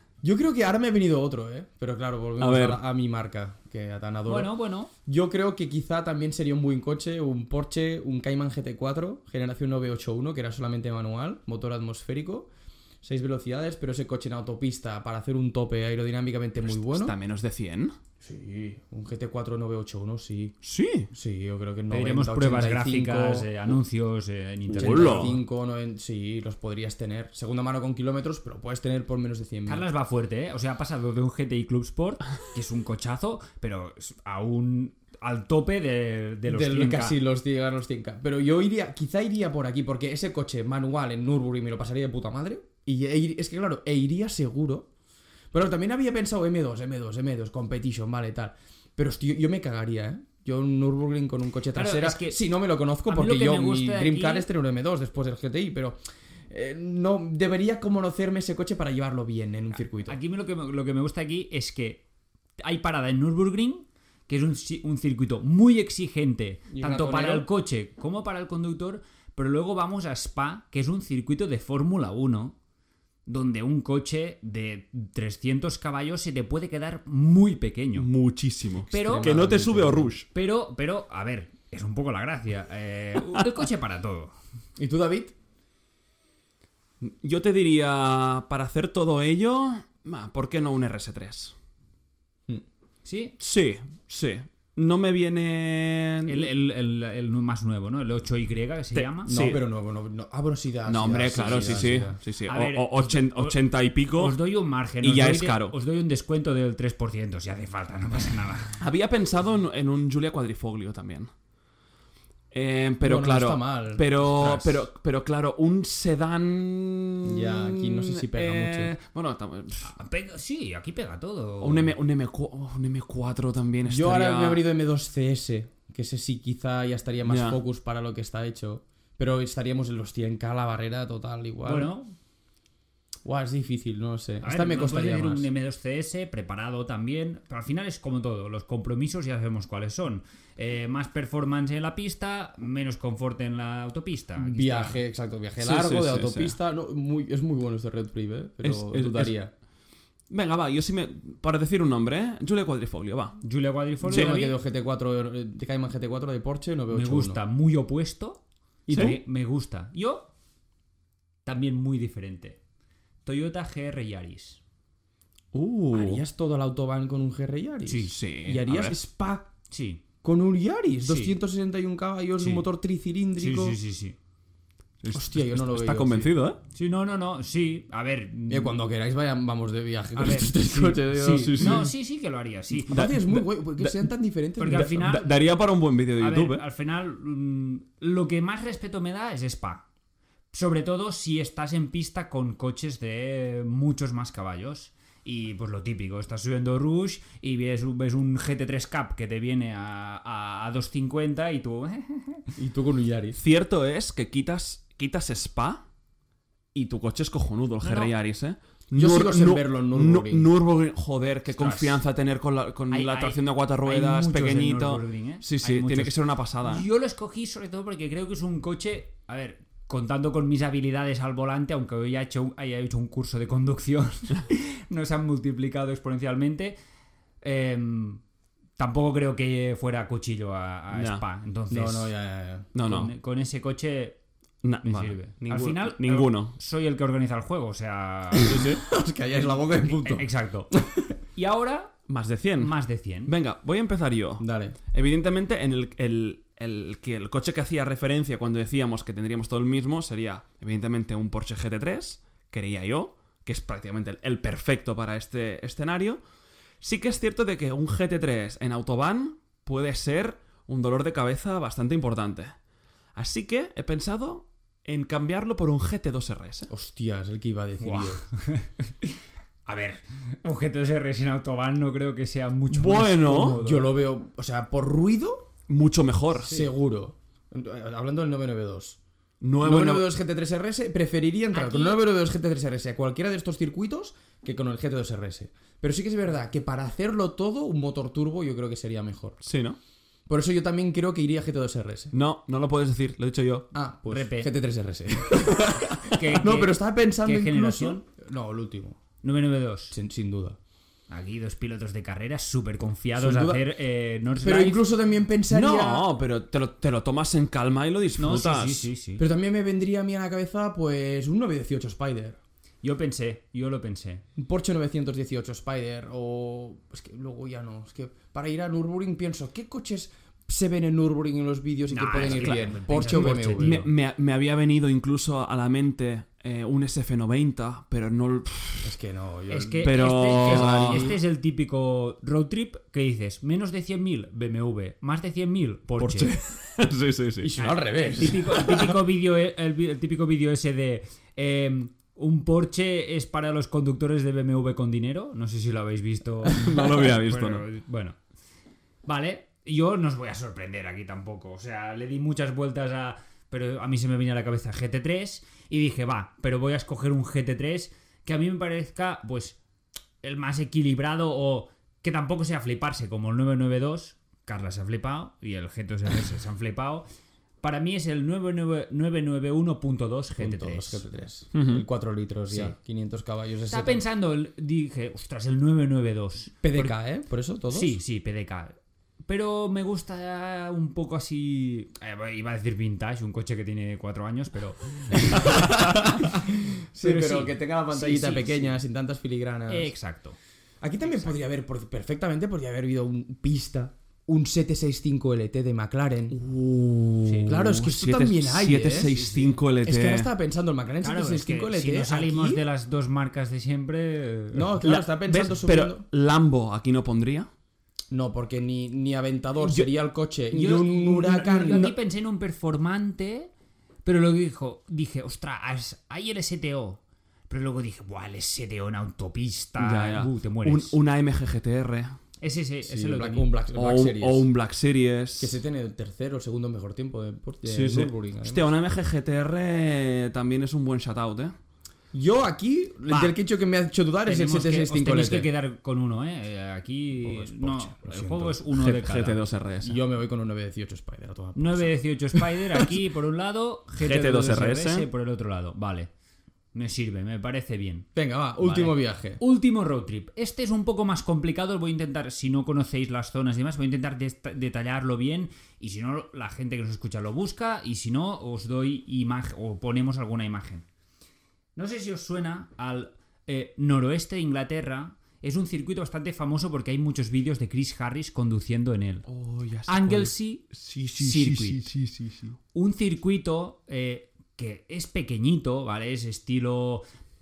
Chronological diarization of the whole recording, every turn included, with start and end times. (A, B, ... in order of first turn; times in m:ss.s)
0:00.2-0:04.5 A
0:02.4-0:02.8 B
0:04.3-0:04.9 C
0:05.0-0:12.5 A
0:13.0-0:17.1 A
0:16.6-0:18.0 B
0:18.2-0:20.6 A
0:20.6-0:21.1 B
0:21.1-0:23.5 A
0:21.9-0:25.4 C
0:24.7-0:29.8 A
0:24.7-0:25.4 B
0:29.7-0:37.2 C
0:36.4-0:44.9 A
0:45.5-1:00.2 A
0:51.7-0:52.4 C
0:53.1-0:54.5 C
1:00.0-1:02.0 C
1:02.6-1:12.6 C
1:06.7-1:07.5 A
1:13.2-1:18.1 C
1:17.9-1:20.3 B
1:18.9-1:19.5 C
1:18.9-1:20.1 A
1:20.3-1:24.3 C
1:24.8-1:25.3 A
1:27.0-1:31.5 B
1:33.0-1:33.3 C
1:33.4-1:36.5 B
1:36.3-1:39.3 C
1:38.9-1:39.6 B
1:39.2-1:42.2 A
1:40.9-1:44.4 B
1:42.4-1:43.5 C
1:44.1-1:48.8 C
1:45.0-1:45.7 B
1:48.8-1:51.3 B
1:52.5-1:59.9 B
1:53.0-1:54.8 A
1:57.2-1:58.9 A
1:59.8-2:01.9 C
2:01.6-2:04.6 B
2:03.9-2:11.9 A
2:07.2-2:07.6 B
2:11.6-2:12.1 C
2:13.2-2:15.5 A
2:14.4-2:25.0 C
2:24.4-2:29.5 A
2:25.6-2:26.5 B
2:28.6-2:29.4 B
2:30.3-2:33.4 B
2:33.4-2:34.6 C
2:34.0-2:37.4 A
2:34.1-2:34.3 B
2:36.9-2:40.3 C
2:38.9-2:39.2 A
2:38.9-2:39.2 B
2:41.4-2:42.6 C
2:43.2-2:44.6 C
2:45.5-2:46.2 B
2:45.9-2:49.5 A
2:47.9-2:48.1 C
2:48.0-2:49.0 B
2:49.7-2:50.0 C
2:50.2-2:53.8 A
2:51.0-2:51.4 C
2:52.4-2:52.6 C
2:53.4-2:54.2 C
2:55.0-2:56.6 B
2:55.1-2:56.3 A
2:56.7-2:58.7 C
2:58.5-3:01.9 A
3:00.2-3:03.0 C
3:01.3-3:01.9 B
3:02.7-3:05.2 A
3:02.9-3:04.1 B
3:04.6-3:05.4 C
3:04.6-3:06.6 B
3:06.2-3:09.8 C
3:10.5-3:22.5 C
3:22.6-3:23.4 A
3:23.4-3:25.8 B
3:26.7-3:36.8 B
3:27.8-3:28.1 C
3:28.9-3:30.5 A
3:31.5-3:32.0 C
3:32.9-3:46.8 C
3:47.4-3:48.2 C
3:48.8-3:52.1 C
3:50.9-3:51.2 B
3:51.7-3:52.7 A
3:52.7-3:53.1 B
3:52.8-3:54.2 C
3:54.6-3:56.5 B
3:54.8-3:58.7 C
3:58.3-4:01.1 A
3:58.4-3:58.8 B
3:59.3-4:00.7 C
4:01.3-4:02.0 C
4:02.1-4:02.7 B
4:02.6-4:03.3 C
4:03.2-4:16.2 B
4:04.4-4:04.8 A
4:16.8-4:22.5 B
4:23.2-4:26.7 B
4:26.7-4:28.2 A
4:27.8-4:29.1 C
4:29.6-4:33.9 C
4:32.7-4:33.6 B
4:33.2-4:35.5 A
4:35.7-4:36.5 B
4:36.4-4:39.0 A
4:39.4-4:40.1 B
4:39.6-4:49.4 A
4:41.5-4:42.0 C
4:49.4-4:49.8 B
4:50.3-4:52.1 A
4:52.1-4:53.7 B
4:53.7-4:59.0 A
4:54.1-4:54.5 C
4:56.1-4:58.0 C
4:59.2-4:59.9 C
4:59.9-5:00.6 A
5:01.1-5:04.8 C
5:03.2-5:03.6 A
5:04.4-5:06.1 A
5:05.5-5:08.9 B
5:08.2-5:09.2 C
5:09.2-5:12.4 A
5:12.8-5:14.2 C
5:14.4-5:23.9 A
5:21.9-5:23.9 C
5:22.2-5:28.9 B
5:28.8-5:31.2 A
5:29.5-5:36.3 C
5:29.8-5:31.1 B
5:36.0-5:37.5 B
5:37.4-5:38.9 A
5:37.6-5:48.2 C
5:46.5-5:47.6 B
5:49.0-5:59.6 C
6:00.2-6:07.0 C
6:07.6-6:11.0 C
6:10.4-6:14.0 A
6:11.5-6:11.8 B
6:13.7-6:16.9 C
6:16.6-6:18.0 A
6:17.7-6:26.2 C
6:25.1-6:29.9 A
6:27.0-6:28.8 C
6:29.7-6:30.4 C
6:30.8-6:36.4 A
6:31.0-6:31.4 C
6:36.3-6:40.3 B
6:37.2-6:37.5 C
6:37.4-6:39.1 A
6:38.8-6:39.6 C
6:39.8-6:42.6 A
6:41.0-6:44.9 C
6:44.5-6:46.0 A
6:44.8-6:47.5 B
6:48.1-6:51.9 A
6:49.6-6:49.9 B
6:50.5-6:53.5 C
6:54.0-7:01.0 C
6:59.8-7:02.2 B
7:02.4-7:03.5 C
7:02.8-7:04.5 A
7:03.7-7:05.6 B
7:05.4-7:08.7 A
7:07.6-7:11.5 B
7:12.1-7:15.5 A
7:13.1-7:13.3 C
7:14.2-7:19.4 C
7:17.2-7:18.6 A
7:18.7-7:20.0 B
7:19.8-7:21.9 A
7:21.5-7:26.1 C
7:24.0-7:25.1 B
7:26.7-7:40.8 C
7:28.1-7:29.4 A
7:41.8-7:49.2 C
7:49.2-7:52.6 B
7:49.9-7:51.9 C
7:52.7-7:57.0 C